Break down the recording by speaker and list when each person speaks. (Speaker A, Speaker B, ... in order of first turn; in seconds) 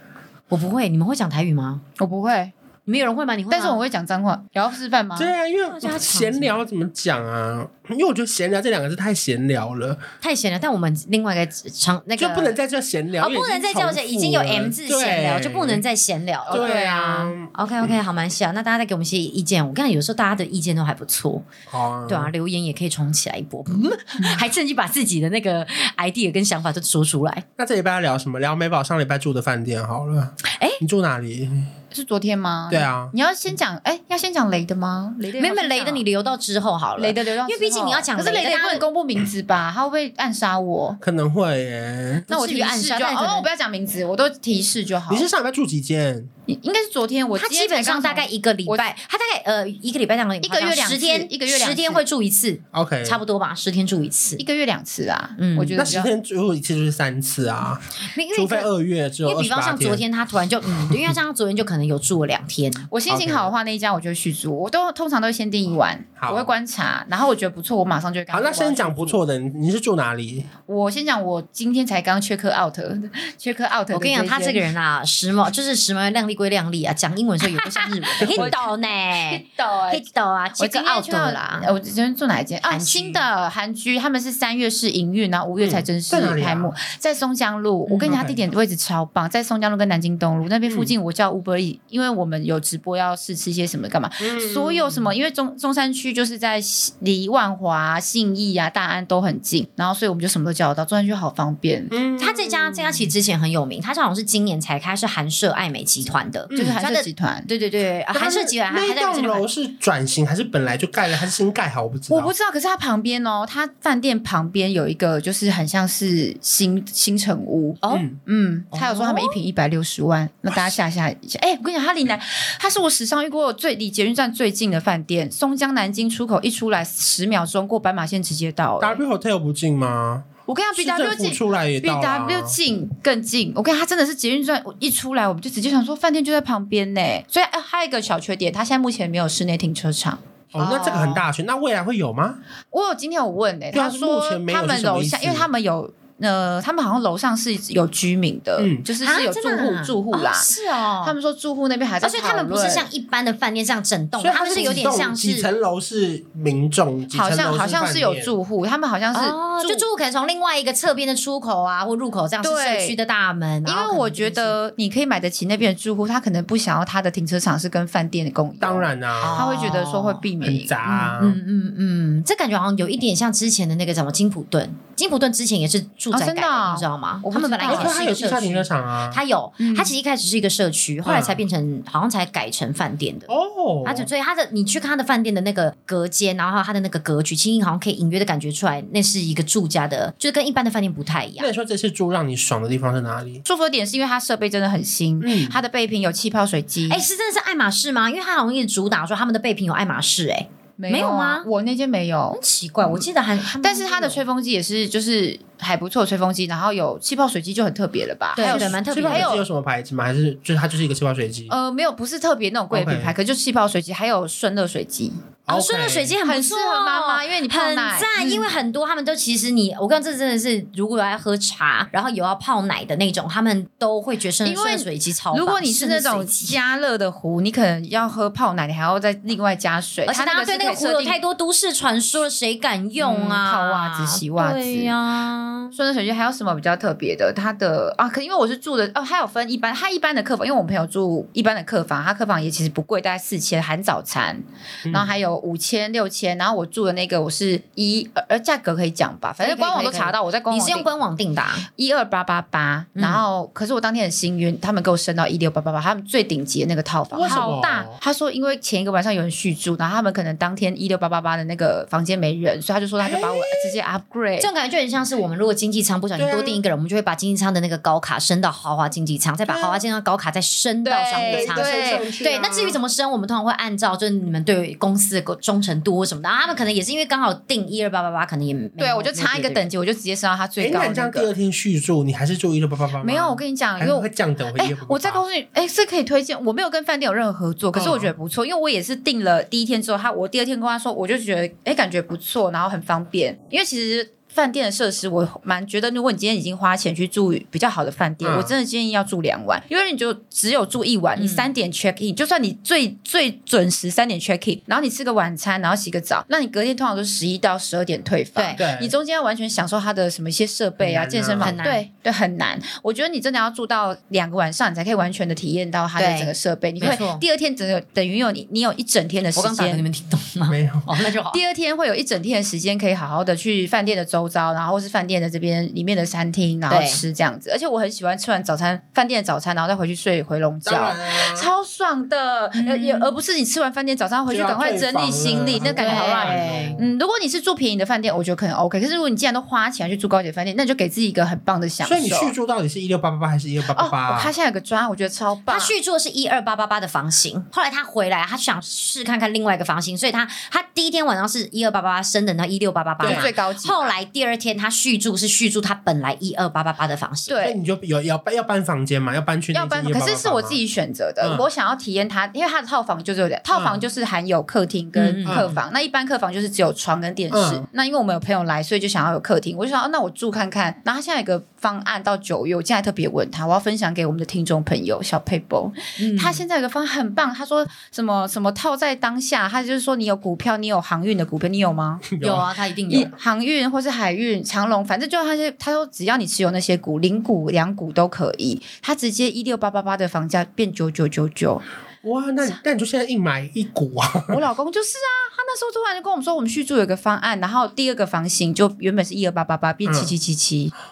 Speaker A: 0.5-1.8, 2.9-3.8, 5.6-6.6, 10.2-12.6, 13.2-16.7, 17.5-21.5, 22.1-27.4, 30.5-30.8, 35.3-38.9, 42.3-43.5, 47.4-54.4, 55.4-55.8, 58.1-58.7, 59.2-62.9, 73.9-81.7, 82.6-83.2, 87.8-88.2, 102.2-109.5, 118.7-119.4, 149.0-151.2, 152.0-155.5, 159.1-164.6, 169.2-170.3, 171.2-183.3, 183.8-191.5, 196.9-201.5, 202.3-204.2, 208.3-209.4, 215.5-226.6, 230.1-235.7, 249.4-251.7, 252.9-253.2, 257.2-257.5, 264.4-279.7, 301.1-301.5, 308.4-308.6, 311.4-311.8, 315.9-317.2, 319.3-321.4, 326.7-327.0, 332.5-333.2, 335.5-336.8, 345.5-357.4, 364.9-365.6, 376.0-376.4, 382.2-383.1
Speaker B: 2.0-2.5, 3.5-5.3, 16.4-17.3, 31.9-36.0, 37.0-41.0, 42.3-45.3, 46.5-48.9, 50.4-52.0, 54.4-56.1, 62.9-69.2, 70.7-74.7, 78.2-102.0, 106.5-107.5, 112.1-129.0, 130.5-141.2, 142.7-152.9, 157.1-159.9, 162.4-163.0, 163.6-171.2, 176.1-178.0, 179.6-179.9, 193.4-197.0, 200.8-203.1, 203.6-209.4, 211.5-215.3, 216.2-218.6, 224.4-231.2, 233.0-234.9, 235.7-250.9, 251.7-264.5, 270.8-272.1, 278.8-281.3, 283.0-319.9, 321.3-342.3, 343.7-345.7, 353.0-353.9, 357.3-357.6, 359.5-382.1, 382.9-391.6, 394.3-400.7
Speaker C: 5.1-10.1, 12.2-15.8, 16.5-17.5, 21.7-22.3, 27.6-31.7, 32.7-33.1, 41.0-42.2, 45.1-46.3, 52.7-53.2, 55.7-60.1, 60.9-61.1, 63.1-63.5, 66.2-66.5, 68.3-70.5, 78.2-78.5, 85.6-86.8, 88.1-88.4, 90.6-90.9, 94.2-94.9, 101.9-103.0, 106.5-106.8, 108.1-112.3, 117.9-118.2, 120.5-120.8, 128.8-132.6, 140.5-142.4, 143.7-145.5, 148.6-148.9, 154.2-158.3, 168.6-169.8, 170.4-171.4, 177.7-179.2, 181.0-181.4, 183.3-184.1, 191.4-193.4, 195.2-195.6, 208.4-211.5, 212.7-213.1, 215.5-216.1, 244.8-245.1, 257.1-258.0, 263.0-263.5, 266.1-266.6, 269.5-269.8, 271.1-272.8, 280.6-285.2, 287.7-288.1, 298.2-298.5, 308.6-308.9, 310.8-311.6, 320.5-320.9, 330.6-331.5, 334.3-336.9, 341.8-344.3, 353.0-353.3, 357.4-360.6, 361.2-361.4, 363.5-363.8, 365.2-365.5, 367.3-367.6, 382.1-382.5, 392.0-394.4, 399.9-400.1